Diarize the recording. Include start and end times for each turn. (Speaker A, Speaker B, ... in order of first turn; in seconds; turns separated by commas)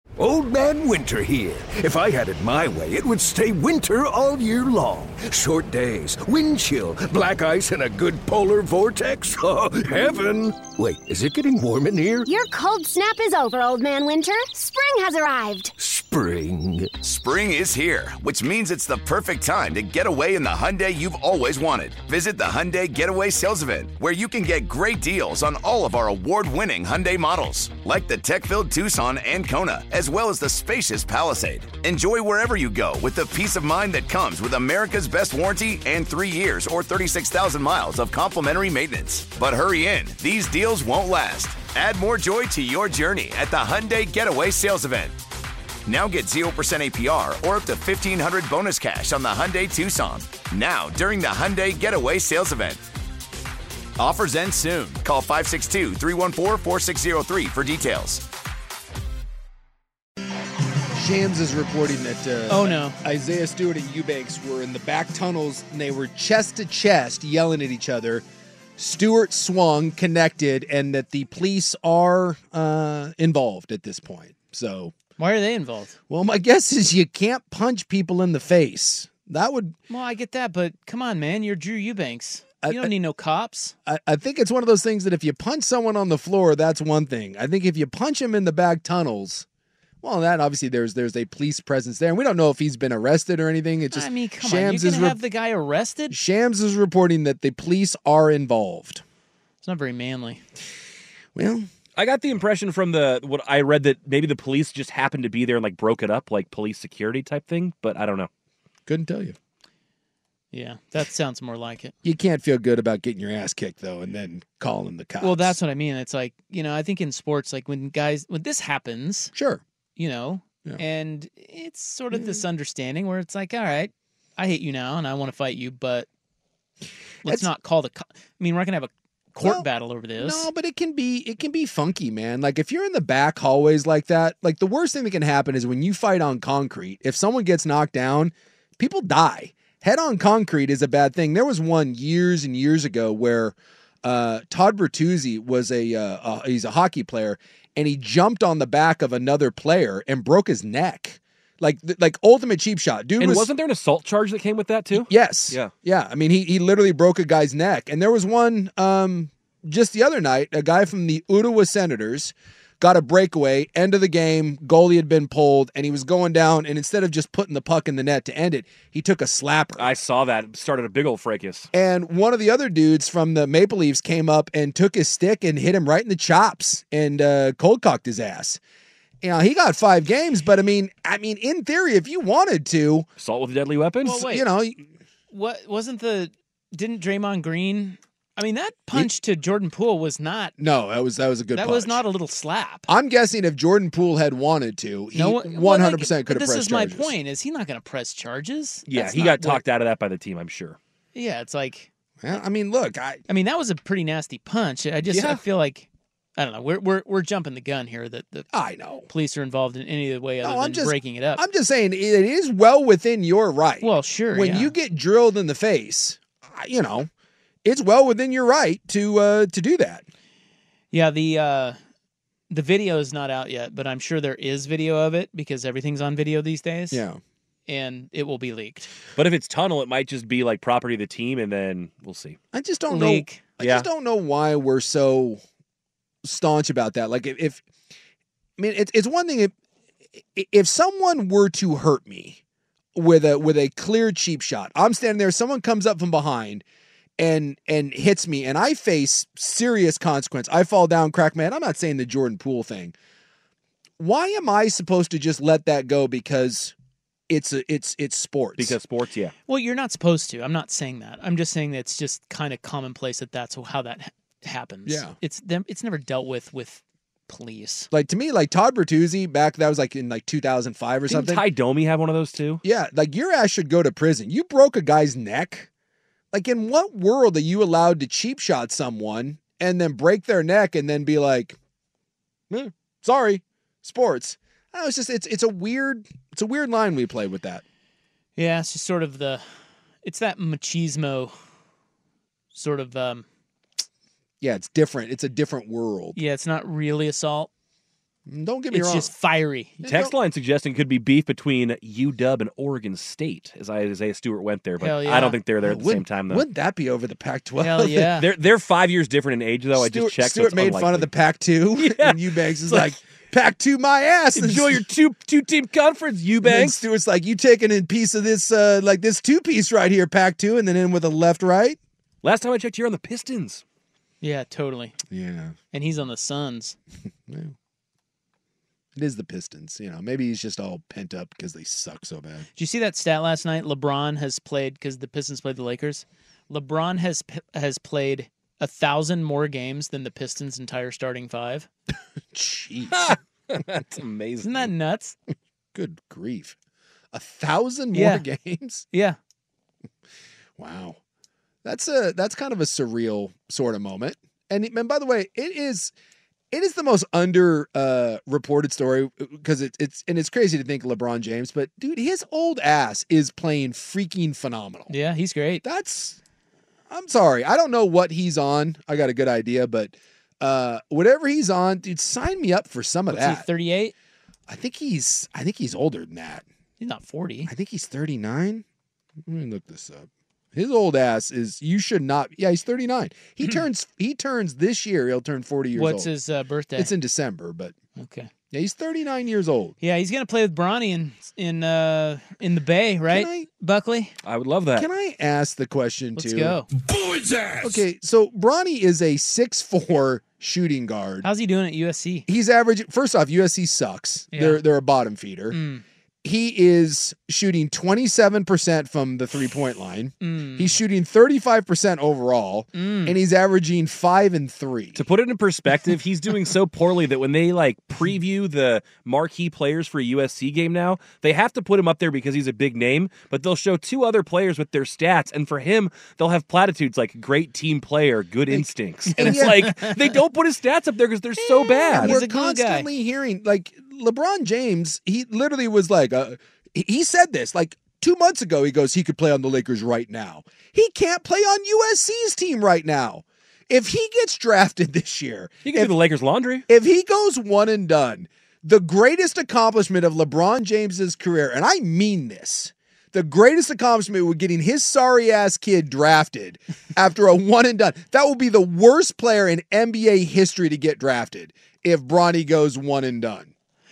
Speaker A: 0.2-12.3, Speaker B: 12.2-15.7, Speaker A: 15.8-17.0, Speaker C: 17.0-45.1, Speaker C: 45.9-52.8, Speaker C: 54.0-58.2, Speaker D: 61.0-68.2, Speaker E: 62.5-63.0, Speaker D: 68.8-74.9, Speaker E: 75.2-76.0, Speaker D: 76.1-79.8, Speaker E: 79.9-83.7, Speaker D: 82.6-82.9, Speaker D: 83.9-89.5, Speaker D: 90.0-95.2, Speaker E: 93.9-96.1, Speaker D: 96.1-99.0, Speaker E: 99.6-100.4, Speaker D: 101.3-101.7, Speaker F: 102.0-108.3, Speaker D: 108.9-109.3, Speaker E: 110.5-111.9, Speaker D: 112.0-115.5, Speaker E: 115.2-119.3, Speaker D: 119.3-119.6, Speaker E: 120.0-126.1, Speaker D: 122.1-122.4, Speaker E: 127.2-130.5, Speaker D: 127.2-127.5, Speaker D: 130.2-153.5, Speaker F: 153.2-155.7, Speaker D: 154.9-169.9, Speaker F: 169.8-171.7, Speaker D: 171.7-178.6, Speaker D: 179.2-183.1, Speaker F: 183.2-184.2, Speaker E: 184.0-184.5, Speaker D: 184.1-184.8, Speaker E: 185.3-190.5, Speaker D: 190.6-192.0, Speaker E: 191.5-192.9, Speaker D: 192.9-197.1, Speaker E: 195.1-199.6, Speaker F: 198.9-200.8, Speaker D: 198.9-199.6, Speaker E: 201.1-201.9, Speaker D: 202.2-203.2, Speaker E: 203.3-208.5, Speaker D: 208.5-209.1, Speaker E: 209.1-211.4, Speaker D: 210.4-217.1, Speaker E: 213.8-214.7, Speaker D: 217.6-220.0, Speaker E: 220.9-221.8, Speaker E: 222.5-227.0, Speaker D: 226.9-227.2, Speaker E: 227.7-228.9, Speaker F: 229.2-232.4, Speaker D: 232.5-235.4, Speaker E: 232.9-233.4, Speaker F: 233.6-233.9, Speaker D: 236.2-237.6, Speaker D: 238.6-239.5, Speaker D: 240.3-242.4, Speaker D: 242.9-246.6, Speaker D: 247.2-252.9, Speaker D: 254.0-256.7, Speaker D: 257.3-258.8, Speaker F: 258.6-259.3, Speaker E: 259.5-267.9, Speaker D: 264.9-265.1, Speaker D: 267.9-271.4, Speaker F: 271.1-272.6, Speaker D: 272.6-275.7, Speaker D: 276.3-281.6, Speaker D: 282.5-287.6, Speaker E: 288.4-289.4, Speaker E: 290.0-291.3, Speaker E: 292.5-293.2, Speaker D: 294.4-296.2, Speaker E: 296.1-297.5, Speaker D: 298.3-299.1, Speaker E: 298.7-299.8, Speaker D: 299.8-300.1, Speaker F: 299.9-306.4, Speaker E: 304.8-305.4, Speaker D: 305.6-308.1, Speaker E: 307.6-308.3, Speaker F: 308.2-311.1, Speaker D: 309.8-314.8, Speaker F: 311.8-312.9, Speaker F: 314.3-316.9, Speaker D: 316.4-321.8, Speaker F: 322.2-323.6, Speaker E: 324.2-324.9, Speaker D: 325.1-325.6, Speaker E: 325.7-326.8, Speaker D: 327.3-327.5, Speaker D: 328.9-332.4, Speaker E: 332.6-341.7, Speaker D: 342.3-343.1, Speaker F: 342.9-344.7, Speaker E: 344.4-345.1, Speaker D: 345.7-346.5, Speaker D: 347.1-348.9, Speaker E: 347.9-348.2, Speaker E: 348.9-349.2, Speaker D: 350.6-351.0, Speaker D: 351.6-355.9, Speaker D: 356.5-364.9, Speaker E: 364.9-365.6, Speaker D: 365.6-366.2, Speaker D: 366.9-373.4, Speaker E: 373.1-373.9, Speaker D: 374.5-376.4, Speaker E: 376.8-377.5, Speaker D: 377.5-378.6, Speaker D: 379.2-386.1, Speaker E: 385.7-386.9, Speaker D: 386.8-387.7, Speaker E: 388.0-388.3, Speaker D: 388.5-389.8, Speaker E: 389.8-394.1, Speaker D: 393.1-393.5, Speaker F: 394.2-394.9, Speaker D: 394.8-396.6, Speaker E: 396.1-396.7, Speaker D: 397.6-401.3, Speaker E: 401.2-402.3, Speaker D: 402.3-405.6, Speaker E: 404.3-404.6, Speaker E: 405.5-405.8, Speaker D: 406.2-415.0, Speaker E: 410.2-410.8, Speaker E: 412.7-413.1, Speaker F: 414.9-432.2, Speaker D: 428.5-429.8, Speaker E: 429.2-429.9, Speaker D: 431.6-445.9, Speaker E: 431.9-432.9, Speaker F: 445.6-446.6, Speaker D: 446.7-463.5